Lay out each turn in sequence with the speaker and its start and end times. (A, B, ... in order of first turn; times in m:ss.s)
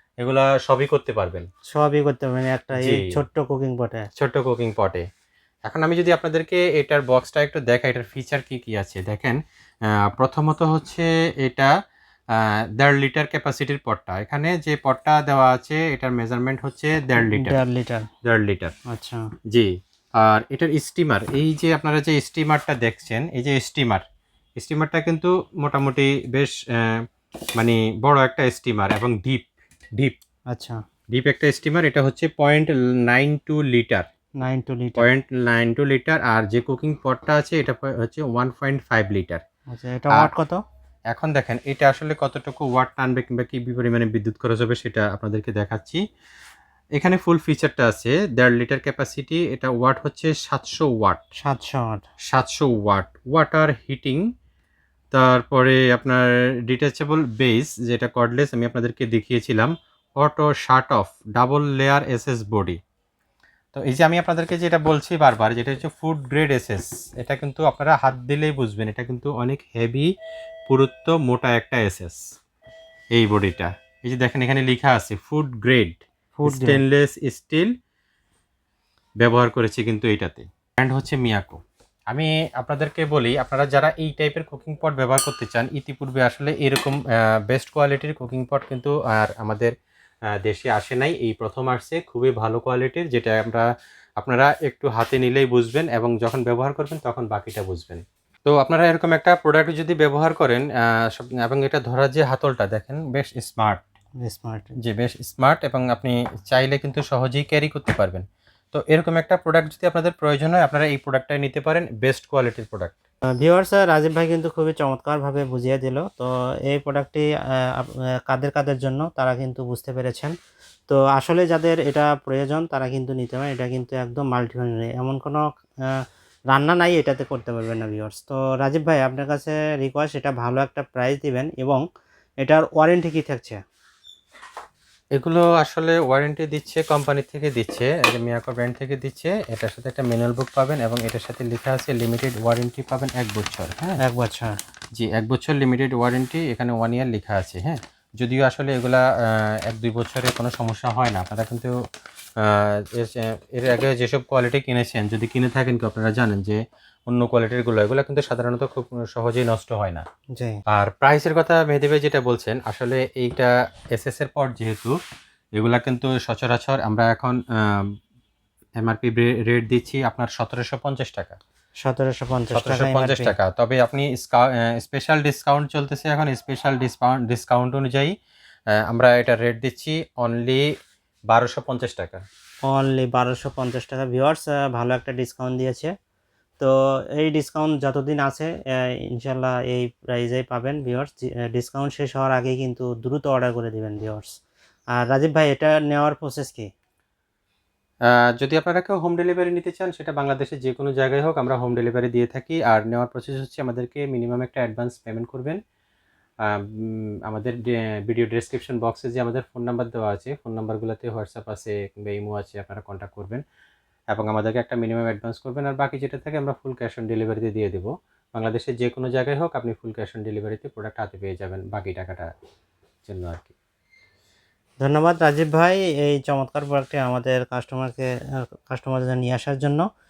0:00.2-0:01.5 A
0:01.7-0:04.1 B
0:02.8-0:03.2 A
0:04.2-0:05.1 A
0:05.7-0:11.7 A
0:12.3-0:17.6 A
0:17.2-0:18.1 B
0:18.2-0:18.7 A
0:18.9-0:19.2 B
0:19.5-0:24.0 A
0:24.6-0:27.0 A
0:27.6-0:30.2 A
0:30.5-0:30.8 B
0:31.1-0:34.1 A
0:34.4-0:35.1 B
0:35.0-0:39.4 A
0:39.7-0:40.6 B
0:41.1-0:46.0 A
0:47.0-0:51.2 A
0:51.4-0:52.0 B
0:52.3-0:54.3 A
0:55.1-1:02.8 A
1:03.7-1:10.1 A
1:10.7-1:12.2 A
1:13.1-1:17.7 A
1:16.4-1:16.8 B
1:19.2-1:29.7 A
1:30.4-1:33.7 A
1:34.2-1:43.8 A
1:44.2-1:44.7 B
1:44.8-1:53.0 A
1:53.4-2:00.3 B
2:00.9-2:06.0 B
2:06.5-2:11.8 B
2:12.4-2:13.6 B
2:15.1-2:24.0 A
2:24.0-2:24.6 B
2:25.0-2:31.8 A
2:32.4-2:40.0 A
2:40.7-2:45.0 A
2:45.6-2:47.9 A
2:48.8-2:51.4 A
2:51.8-2:53.3 B
2:52.5-2:58.2 A
2:58.8-3:00.7 A
3:01.3-3:02.3 A
3:02.7-3:05.9 B
3:06.6-3:14.4 B
3:15.0-3:16.7 B
3:18.1-3:25.6 A
3:26.4-3:33.4 A
3:34.1-3:42.3 A
3:43.1-3:43.5 A
3:44.8-3:48.1 B
3:48.7-3:49.8 B